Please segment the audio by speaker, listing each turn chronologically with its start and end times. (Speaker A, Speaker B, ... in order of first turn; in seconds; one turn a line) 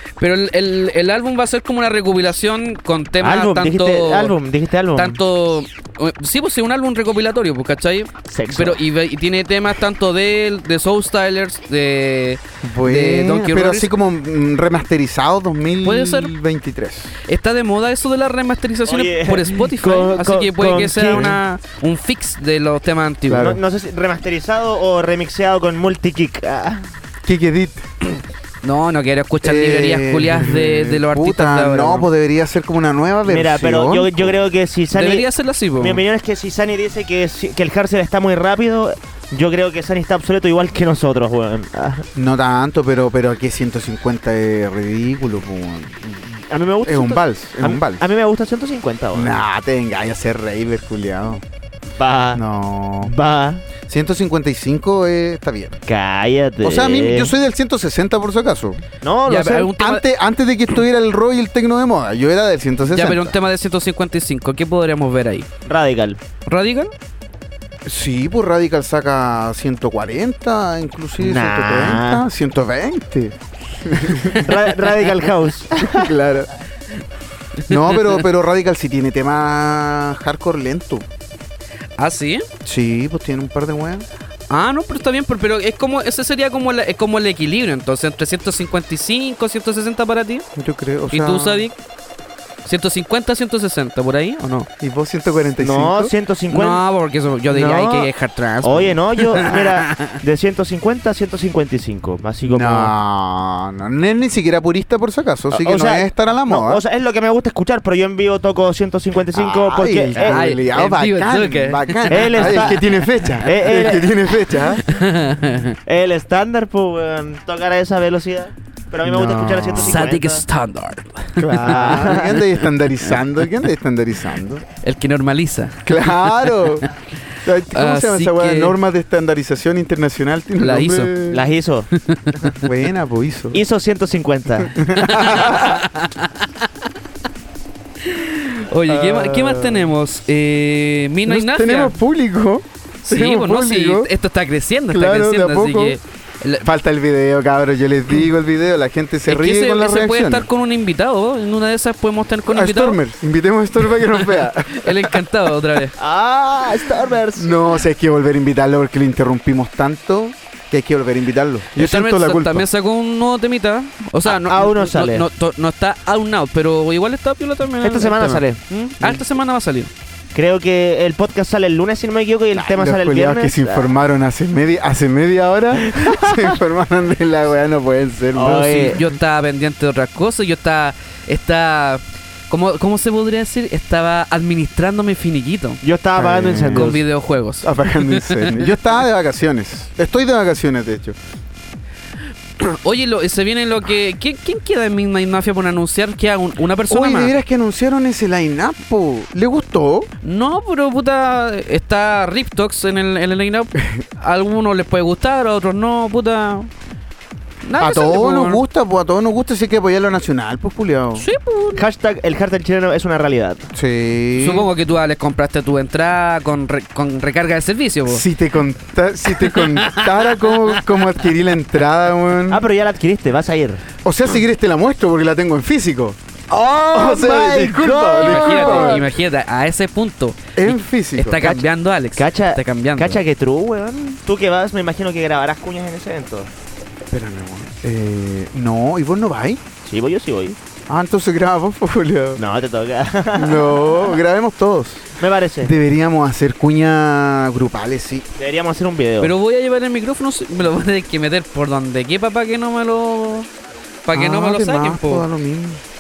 Speaker A: 0.2-4.3
Speaker B: 3.2-5.2
Speaker A: 5.0-13.9
Speaker B: 8.3-8.8
Speaker C: 12.6-17.1
Speaker A: 15.8-16.3
Speaker A: 17.3-23.6
Speaker B: 18.9-21.3
Speaker C: 21.0-21.4
Speaker C: 23.3-23.6
Speaker B: 23.4-26.9
Speaker C: 27.2-27.9
Speaker A: 28.6-32.1
Speaker C: 29.4-34.4
Speaker B: 33.3-35.3
Speaker A: 34.9-36.0
Speaker B: 35.8-42.1
Speaker C: 42.1-48.0
Speaker B: 46.5-49.4
Speaker C: 49.1-51.4
Speaker B: 52.0-52.4
Speaker C: 52.3-53.1
Speaker B: 53.0-53.6
Speaker C: 53.9-55.8
Speaker B: 55.9-57.3
Speaker C: 56.6-58.8
Speaker B: 59.0-59.7
Speaker A: 59.3-60.0
Speaker C: 59.7-63.4
Speaker A: 62.9-65.5
Speaker B: 65.7-66.2
Speaker A: 66.5-66.9
Speaker C: 67.9-74.5
Speaker B: 71.2-72.2
Speaker B: 74.3-76.1
Speaker C: 75.8-76.5
Speaker C: 77.7-81.1
Speaker A: 77.7-78.1
Speaker A: 82.0-82.5
Speaker C: 82.7-84.1
Speaker A: 84.5-90.5
Speaker C: 90.6-91.7
Speaker A: 91.1-91.8
Speaker A: 92.7-94.7
Speaker C: 94.8-96.1
Speaker B: 95.6-96.8
Speaker A: 96.5-100.1
Speaker B: 97.5-98.1
Speaker B: 98.6-102.9
Speaker C: 102.5-106.8
Speaker B: 105.5-110.4
Speaker C: 109.3-114.8
Speaker A: 110.2-112.8
Speaker B: 112.1-112.8
Speaker B: 113.4-114.1
Speaker A: 114.9-115.8
Speaker B: 115.9-120.4
Speaker C: 119.0-120.1
Speaker A: 119.8-122.1
Speaker C: 121.4-124.7
Speaker B: 121.4-122.3
Speaker A: 124.8-126.0
Speaker C: 125.8-126.9
Speaker C: 127.4-131.5
Speaker A: 127.7-128.8
Speaker A: 130.6-131.1
Speaker B: 131.3-131.9
Speaker A: 132.1-132.5
Speaker C: 132.6-133.6
Speaker B: 133.5-134.8
Speaker C: 134.7-135.8
Speaker A: 135.0-136.3
Speaker A: 138.0-141.9
Speaker C: 138.9-139.9
Speaker C: 141.3-144.1
Speaker A: 143.1-146.7
Speaker C: 144.9-146.0
Speaker C: 146.6-150.5
Speaker A: 149.3-153.0
Speaker C: 152.5-155.2
Speaker A: 154.1-155.9
Speaker B: 156.0-157.5
Speaker C: 157.3-162.7
Speaker A: 161.8-169.9
Speaker B: 164.2-165.3
Speaker B: 167.8-168.6
Speaker B: 170.3-173.9
Speaker C: 172.5-179.0
Speaker B: 175.9-176.4
Speaker B: 178.3-179.0
Speaker A: 178.5-185.8
Speaker B: 185.8-187.0
Speaker C: 186.2-187.0
Speaker A: 186.7-188.7
Speaker C: 187.6-191.2
Speaker A: 192.6-197.3
Speaker C: 196.9-200.1
Speaker A: 200.2-206.7
Speaker A: 207.6-208.6
Speaker C: 207.8-211.3
Speaker A: 211.2-211.8
Speaker B: 211.8-213.7
Speaker C: 213.7-214.7
Speaker A: 214.4-218.3
Speaker C: 218.1-222.6
Speaker A: 219.4-220.4
Speaker B: 222.5-223.8
Speaker C: 224.0-226.2
Speaker B: 226.5-229.0
Speaker C: 226.9-229.1
Speaker A: 228.2-233.2
Speaker C: 230.6-231.7
Speaker B: 232.2-236.5
Speaker C: 237.1-239.6
Speaker B: 239.8-240.6
Speaker C: 240.9-242.4
Speaker B: 242.4-244.0
Speaker C: 243.3-248.3
Speaker B: 245.2-245.8
Speaker B: 248.4-249.3
Speaker A: 249.2-253.5
Speaker A: 254.1-255.2
Speaker C: 254.1-255.8